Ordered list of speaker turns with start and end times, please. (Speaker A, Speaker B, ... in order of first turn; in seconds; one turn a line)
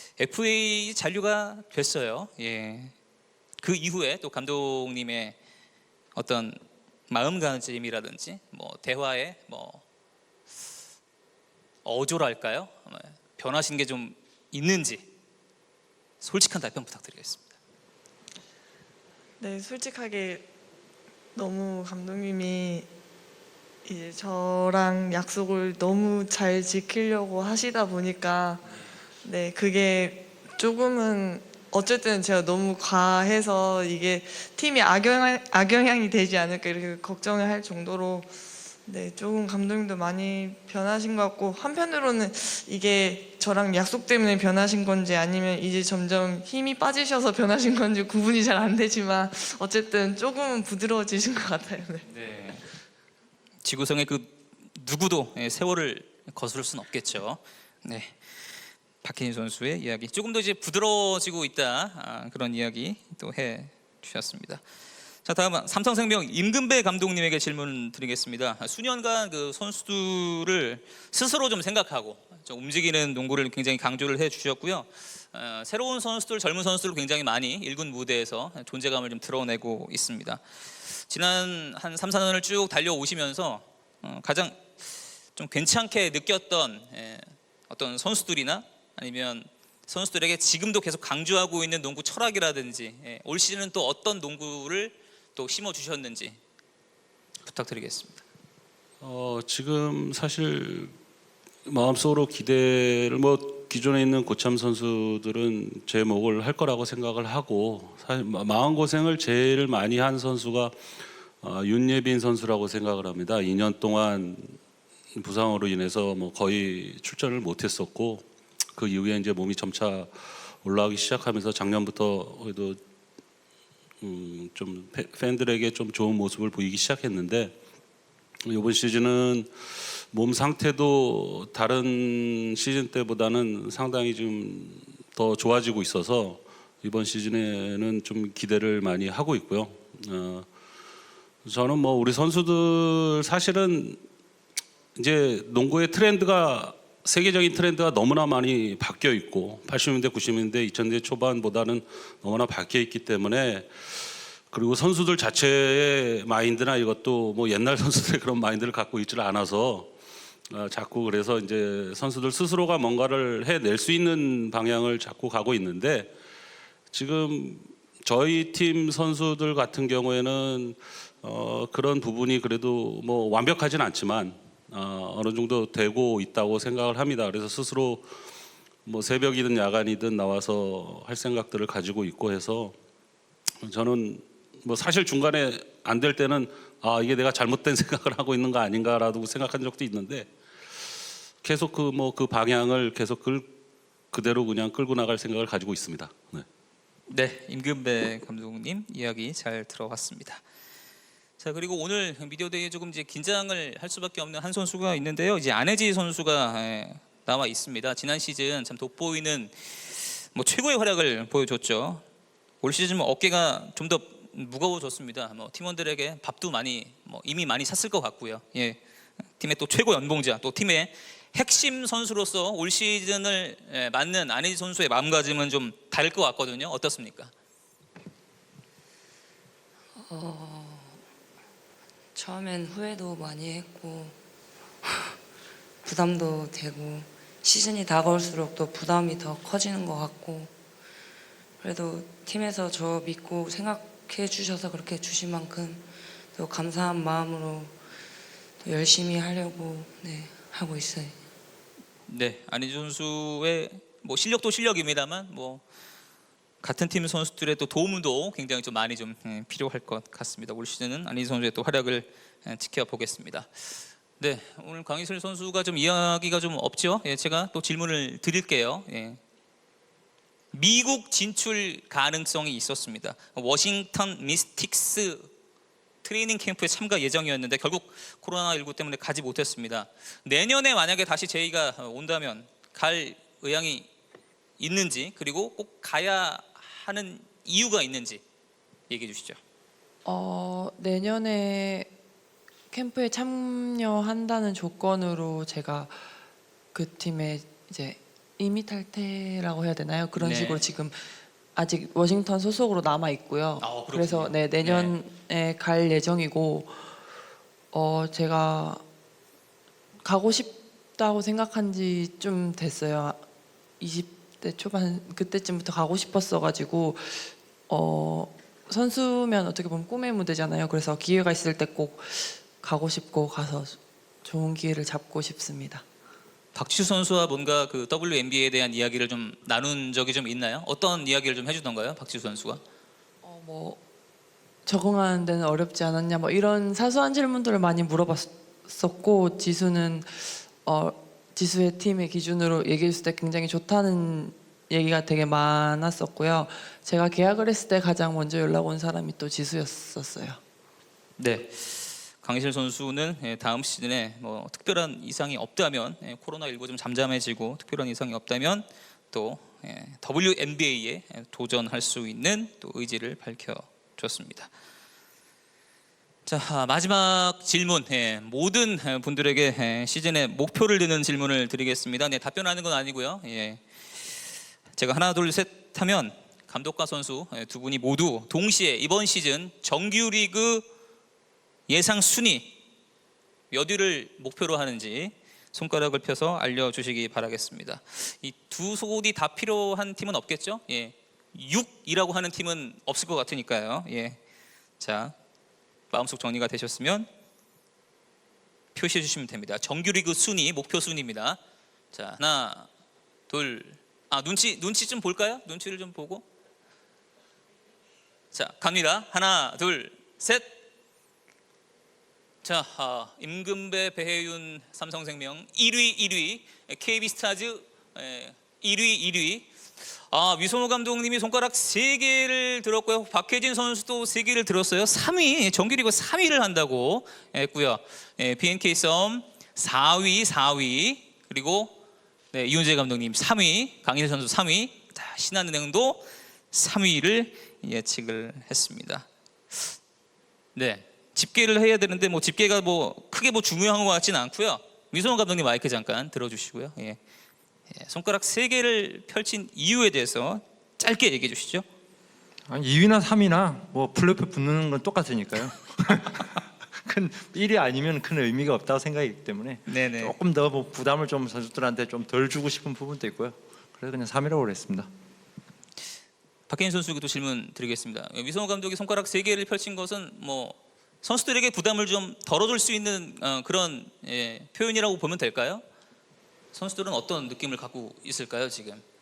Speaker A: 0.2-2.9
Speaker A: 3.6-5.4
Speaker A: 6.2-9.8
Speaker A: 11.8-15.1
Speaker A: 16.2-17.5
Speaker B: 19.4-20.5
Speaker B: 21.4-22.9
Speaker B: 23.9-28.6
Speaker B: 29.2-38.3
Speaker B: 38.9-52.0
Speaker A: 52.1-52.6
Speaker A: 53.6-58.2
Speaker A: 59.0-64.6
Speaker A: 65.2-84.8
Speaker A: 85.4-96.4
Speaker A: 97.4-98.2
Speaker C: 99.0-100.9
Speaker C: 101.7-110.8
Speaker C: 111.4-114.6
Speaker C: 115.2-120.1
Speaker C: 120.6-122.8
Speaker C: 124.0-127.6
Speaker C: 128.5-129.5
Speaker C: 130.1-140.5
Speaker C: 141.5-144.0
Speaker C: 145.0-153.7
Speaker C: 154.5-159.9
Speaker C: 160.5-166.1
Speaker C: 166.9-178.1
Speaker C: 178.9-182.8
Speaker C: 183.6-190.3
Speaker C: 191.4-193.5
Speaker C: 194.1-196.4
Speaker A: 197.1-200.4
Speaker A: 201.4-212.0
Speaker A: 212.6-218.8
Speaker A: 219.4-227.3
Speaker D: 230.0-231.0
Speaker D: 232.2-234.2
Speaker D: 235.8-240.5
Speaker D: 241.6-247.7
Speaker D: 248.6-251.2
Speaker A: 252.1-255.6
Speaker A: 256.6-269.2
Speaker A: 270.5-275.3
Speaker A: 276.0-283.9
Speaker A: 284.6-288.2
Speaker A: 288.9-289.4
Speaker E: 290.1-291.9
Speaker E: 292.7-296.0
Speaker E: 296.7-301.0
Speaker A: 300.2-300.6
Speaker E: 301.6-306.9
Speaker A: 303.6-305.0
Speaker E: 307.7-308.8
Speaker E: 310.0-313.2
Speaker E: 313.8-325.8
Speaker A: 326.6-332.6
Speaker E: 333.2-333.8
Speaker E: 334.7-350.4
Speaker A: 351.2-364.5
Speaker A: 366.3-373.6
Speaker A: 374.8-380.6
Speaker A: 381.7-382.6
Speaker A: 383.5-394.2
Speaker A: 394.8-395.1
Speaker A: 395.9-397.1
Speaker A: 398.8-401.4
Speaker A: 401.9-402.7
Speaker A: 403.3-406.2
Speaker A: 408.3-410.6
Speaker A: 412.4-431.8
Speaker A: 432.3-439.7
Speaker A: 440.6-447.0
Speaker A: 447.7-451.7
Speaker F: 452.5-464.9
Speaker A: 459.7-460.1
Speaker A: 466.5-475.6
Speaker A: 476.5-478.8